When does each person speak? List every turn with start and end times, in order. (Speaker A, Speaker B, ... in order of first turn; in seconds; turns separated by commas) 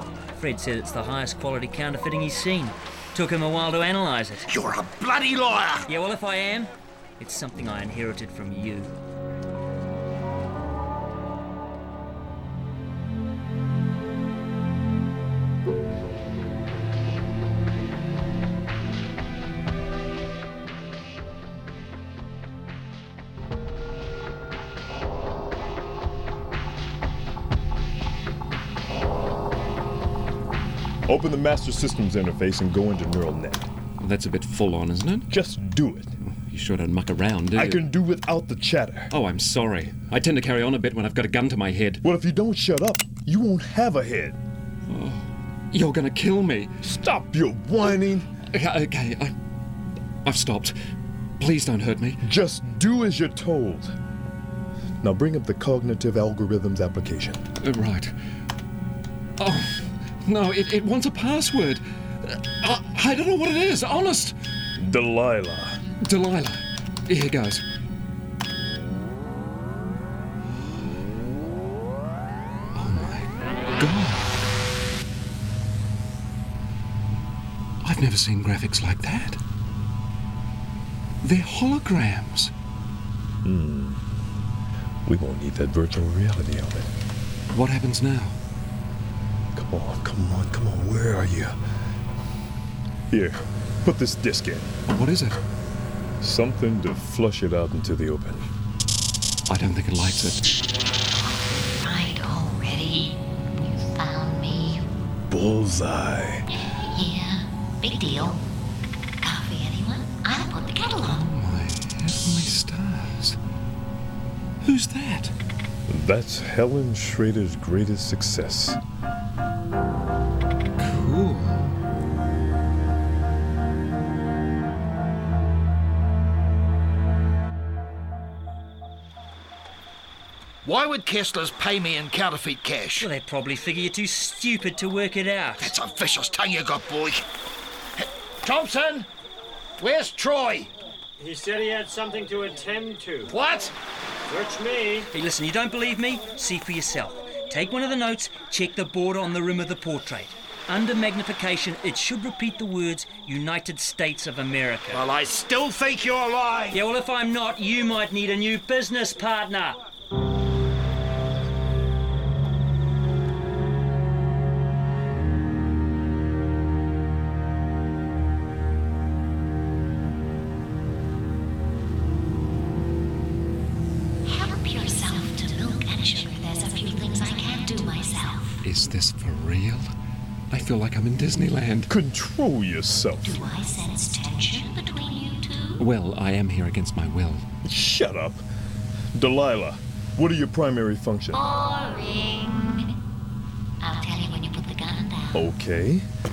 Speaker A: 0.3-4.5, Speaker B: 4.5-5.9, Speaker A: 5.9-8.9, Speaker C: 31.1-33.7, Speaker D: 34.0-35.3, Speaker C: 35.3-36.1, Speaker D: 36.5-37.9, Speaker C: 37.5-39.1, Speaker D: 39.1-42.0, Speaker C: 42.0-44.4, Speaker D: 44.9-46.7, Speaker C: 46.8-48.3, Speaker D: 48.5-49.3, Speaker D: 50.2-50.7, Speaker D: 51.4-52.2, Speaker C: 52.2-53.9, Speaker C: 55.0-57.4, Speaker D: 57.6-58.1, Speaker D: 59.4-64.3, Speaker C: 64.8-65.8, Speaker D: 66.0-67.6, Speaker D: 72.7-74.5, Speaker D: 77.8-79.4, Speaker D: 81.2-82.5, Speaker C: 83.4-84.0, Speaker C: 85.0-86.9, Speaker D: 87.5-88.3, Speaker C: 89.5-91.5, Speaker C: 93.1-94.8, Speaker D: 94.9-95.4, Speaker C: 96.2-98.4, Speaker D: 99.5-100.5, Speaker E: 101.2-104.9, Speaker C: 105.3-106.4, Speaker E: 106.6-108.5, Speaker E: 109.2-111.2, Speaker D: 111.0-113.4, Speaker D: 114.6-115.3, Speaker C: 115.9-118.8, Speaker D: 120.8-121.7, Speaker B: 130.6-133.1, Speaker A: 133.0-135.7, Speaker B: 135.6-137.2, Speaker B: 138.0-139.1, Speaker B: 139.8-140.7, Speaker F: 141.2-143.3, Speaker B: 143.3-143.7, Speaker F: 144.3-145.1, Speaker A: 145.1-155.0, Speaker B: 154.9-156.8, Speaker A: 156.7-159.8, Speaker E: 174.2-178.6, Speaker D: 178.6-179.9, Speaker D: 180.5-181.9, Speaker C: 181.9-183.4, Speaker E: 183.2-185.8, Speaker D: 185.8-187.4, Speaker C: 187.6-188.4, Speaker C: 189.1-191.4, Speaker E: 191.3-192.9, Speaker E: 193.8-195.5, Speaker C: 195.3-196.1